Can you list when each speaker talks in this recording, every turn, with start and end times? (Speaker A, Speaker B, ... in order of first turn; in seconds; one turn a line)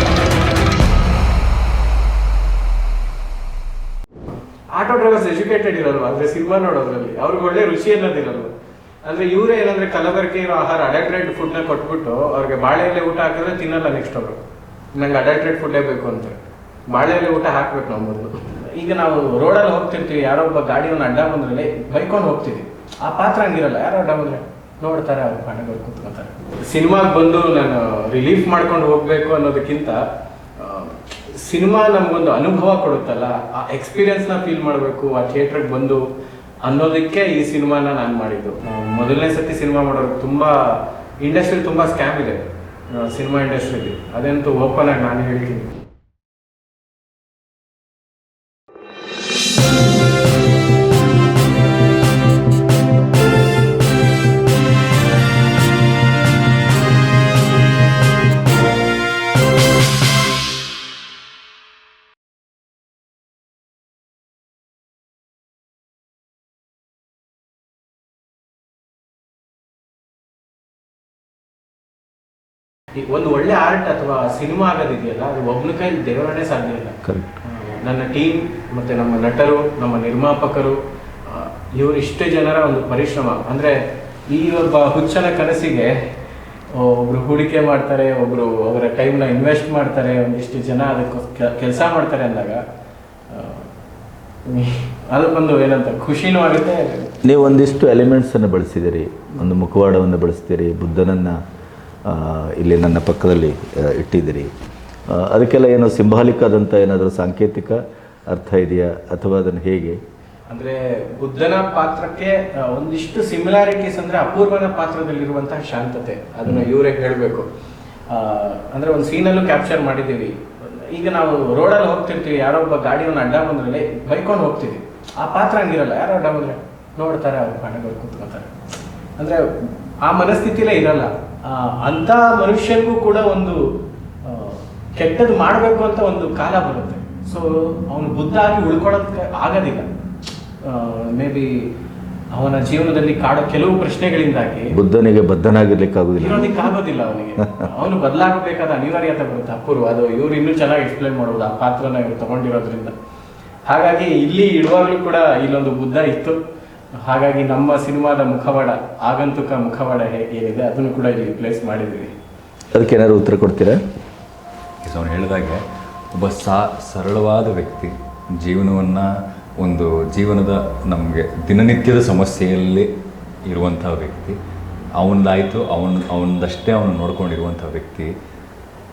Speaker A: 4.7-8.5
Speaker A: 9.0-14.4
Speaker A: 14.9-30.0
Speaker A: 30.6-36.0
Speaker A: 36.6-45.8
Speaker A: 73.0-86.0
Speaker B: 77.0-77.4
Speaker A: 86.7-92.6
Speaker A: 93.3-93.7
Speaker A: 94.5-97.7
Speaker B: 97.2-101.4
Speaker B: 102.1-104.5
Speaker B: 105.1-107.8
Speaker B: 108.3-110.0
Speaker A: 110.5-117.5
Speaker A: 118.1-128.5
Speaker A: 129.2-129.4
Speaker A: 130.0-133.6
Speaker A: 134.2-139.9
Speaker A: 140.6-141.7
Speaker A: 142.3-144.7
Speaker B: 144.7-146.6
Speaker A: 146.2-152.9
Speaker A: 153.7-156.4
Speaker A: 157.0-162.1
Speaker B: 162.7-163.8
Speaker C: 164.8-165.6
Speaker C: 166.1-172.9
Speaker C: 173.5-174.4
Speaker C: 175.0-178.1